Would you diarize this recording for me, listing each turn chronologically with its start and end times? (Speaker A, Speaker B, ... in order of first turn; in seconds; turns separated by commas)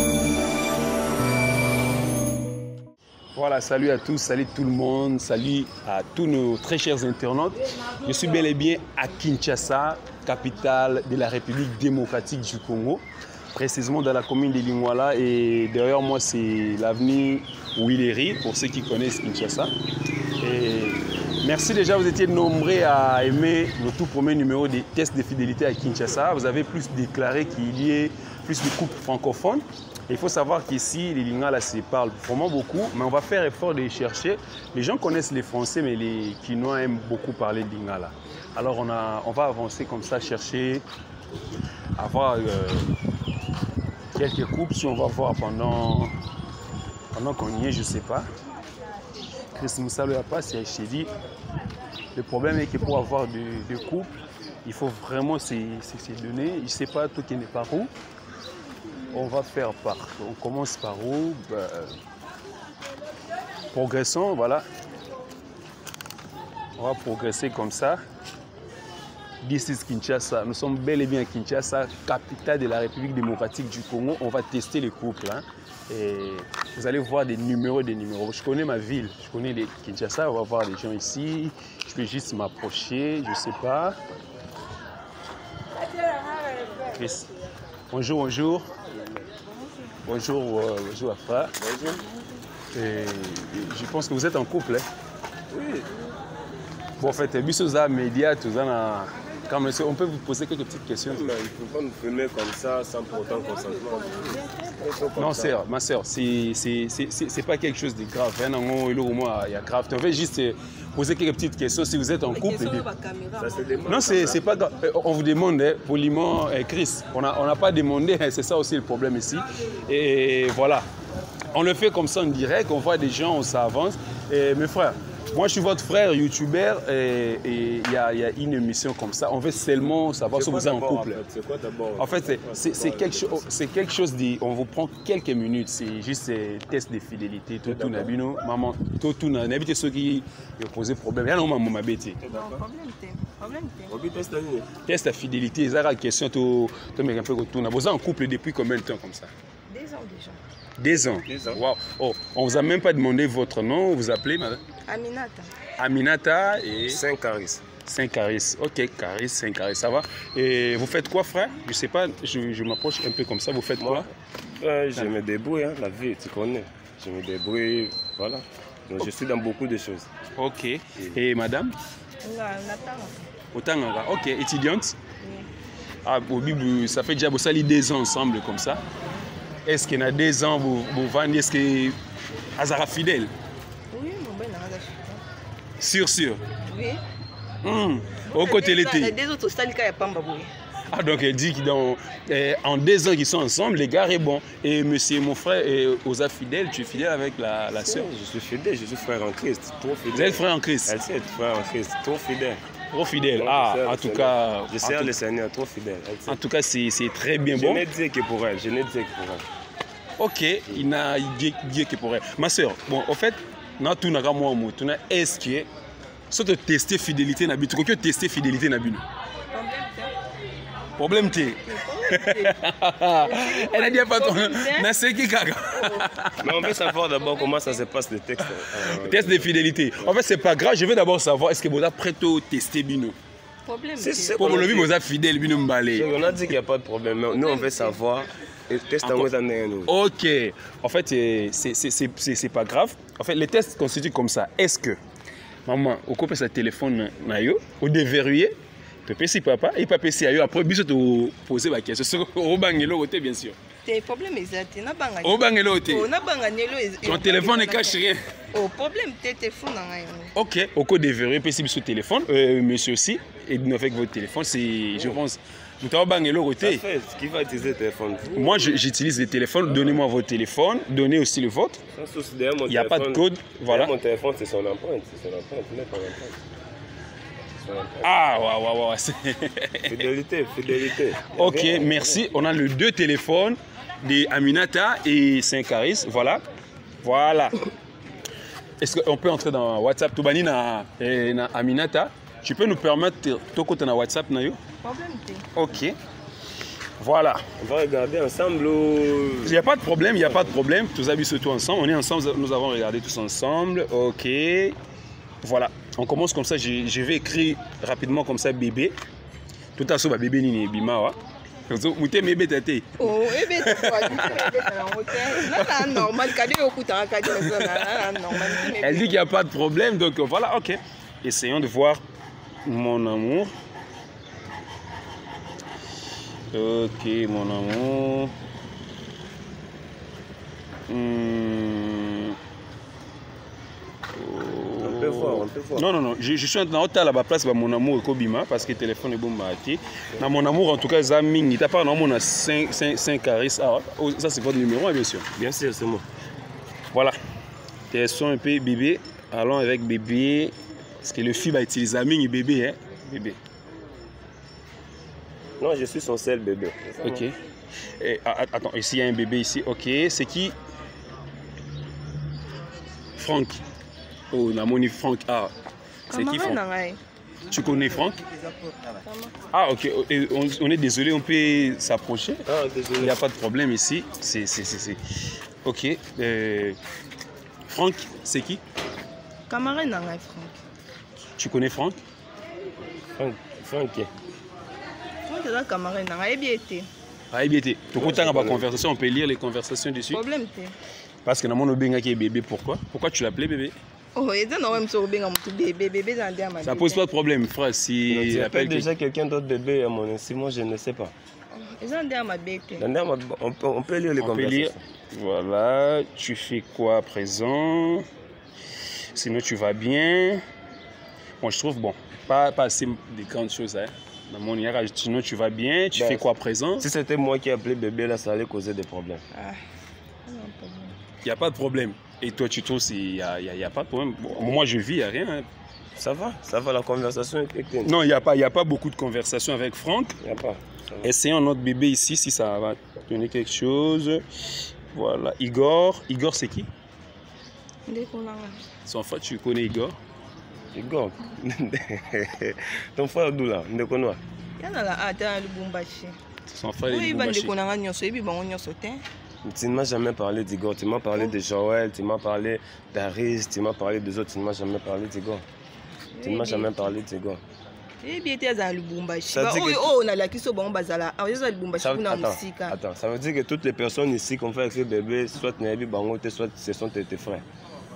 Speaker A: 3.4-13.0, Speaker A: 13.5-19.7, Speaker A: 20.4-40.8, Speaker A: 42.0-42.9, Speaker A: 44.1-46.1, Speaker A: 47.1-48.3, Speaker A: 49.5-51.1, Speaker A: 52.1-54.1, Speaker A: 54.6-57.9, Speaker A: 59.1-61.9, Speaker A: 63.7-64.7, Speaker A: 66.8-68.0, Speaker A: 69.4-84.0, Speaker A: 86.9-87.3, Speaker A: 87.9-88.7, Speaker A: 90.0-91.5, Speaker B: 91.6-92.1, Speaker A: 92.7-94.9, Speaker B: 95.5-95.9, Speaker A: 97.0-101.4, Speaker B: 101.1-105.6, Speaker C: 104.2-104.5, Speaker A: 105.2-112.8, Speaker C: 112.3-114.5, Speaker B: 113.4-114.4, Speaker A: 113.9-120.9, Speaker A: 121.5-131.2, Speaker B: 130.3-133.5, Speaker A: 132.0-142.2, Speaker B: 137.7-138.2, Speaker B: 142.2-142.6, Speaker C: 142.3-144.0, Speaker B: 143.9-144.7, Speaker A: 144.9-149.3, Speaker C: 149.7-150.4, Speaker A: 150.8-154.6, Speaker B: 150.9-151.6, Speaker C: 154.9-155.5, Speaker A: 155.8-157.0, Speaker B: 156.9-157.7, Speaker A: 157.8-164.1, Speaker B: 163.8-170.1, Speaker A: 170.4-171.8, Speaker C: 172.2-173.2, Speaker A: 173.5-175.0, Speaker C: 175.2-175.5, Speaker A: 176.1-178.8, Speaker A: 179.7-182.0, Speaker A: 182.6-183.3, Speaker C: 183.9-185.2, Speaker A: 185.8-186.4, Speaker C: 186.6-187.0, Speaker A: 187.6-189.1, Speaker C: 188.3-190.5, Speaker A: 190.9-198.1, Speaker B: 197.8-202.6, Speaker A: 200.1-201.0, Speaker A: 202.9-205.1, Speaker B: 203.3-206.4, Speaker A: 206.3-207.9, Speaker B: 207.5-209.4, Speaker A: 210.2-215.7, Speaker A: 216.3-219.0, Speaker C: 219.5-220.1, Speaker A: 221.0-226.9, Speaker C: 221.5-222.6, Speaker C: 223.2-224.9, Speaker B: 226.4-230.2, Speaker A: 228.7-233.2, Speaker C: 233.7-234.6, Speaker B: 234.0-235.0, Speaker A: 234.4-236.2, Speaker B: 235.9-239.9, Speaker C: 237.3-238.0, Speaker A: 239.0-239.3, Speaker A: 239.9-245.0, Speaker A: 245.7-248.5, Speaker A: 249.1-253.6, Speaker C: 253.8-258.0, Speaker A: 255.2-256.1, Speaker A: 257.1-258.2, Speaker C: 258.5-260.3, Speaker A: 260.4-266.8, Speaker B: 264.9-265.2, Speaker B: 266.6-268.8, Speaker A: 268.3-271.8, Speaker B: 271.9-276.4, Speaker A: 272.7-273.9, Speaker B: 277.6-278.1, Speaker A: 278.0-280.1, Speaker B: 279.9-282.2, Speaker A: 281.3-286.4, Speaker A: 287.0-287.6, Speaker A: 288.8-294.6, Speaker C: 294.8-295.5, Speaker A: 295.5-295.9, Speaker A: 297.0-297.4, Speaker B: 297.6-299.6, Speaker A: 299.4-304.8, Speaker B: 300.2-300.5, Speaker A: 305.4-308.9, Speaker A: 309.8-311.2, Speaker A: 311.7-314.8, Speaker C: 313.0-319.2, Speaker A: 315.3-316.2, Speaker A: 317.2-322.0, Speaker A: 322.6-323.5, Speaker A: 326.5-328.3, Speaker A: 330.9-332.4, Speaker A: 334.1-345.3, Speaker B: 334.8-335.9, Speaker B: 345.4-346.1, Speaker A: 347.9-353.4, Speaker B: 355.6-357.2, Speaker A: 357.0-357.3, Speaker A: 358.0-360.6, Speaker A: 363.2-363.6, Speaker A: 364.3-365.5, Speaker C: 366.1-367.0, Speaker A: 366.1-366.6, Speaker A: 367.5-368.2, Speaker C: 368.8-369.3, Speaker A: 369.5-372.4, Speaker B: 372.5-373.2, Speaker A: 373.0-375.0, Speaker A: 375.6-376.8, Speaker A: 377.7-378.6, Speaker C: 379.5-380.6, Speaker A: 381.4-382.0, Speaker B: 383.2-384.1, Speaker C: 385.3-386.9, Speaker A: 387.3-390.2, Speaker B: 388.0-388.7, Speaker C: 390.1-390.8, Speaker A: 391.2-393.8, Speaker C: 394.1-397.0, Speaker A: 396.6-398.9, Speaker B: 398.1-401.1, Speaker C: 401.5-402.9, Speaker B: 402.8-404.8, Speaker A: 404.2-408.1, Speaker A: 409.1-410.4, Speaker A: 411.4-416.9, Speaker B: 415.9-419.2, Speaker C: 419.3-419.6, Speaker C: 420.3-420.9, Speaker A: 421.2-425.5, Speaker B: 426.0-427.9, Speaker A: 427.8-430.2, Speaker B: 430.2-431.1, Speaker A: 431.0-434.2, Speaker A: 434.9-436.7, Speaker C: 437.9-438.6, Speaker A: 438.9-440.0, Speaker B: 440.7-444.2, Speaker C: 444.6-446.2, Speaker A: 446.5-447.5, Speaker C: 446.9-449.0, Speaker B: 449.4-455.4, Speaker C: 456.1-457.0, Speaker B: 456.2-457.4, Speaker C: 458.0-462.8, Speaker B: 459.3-459.9, Speaker B: 461.7-467.4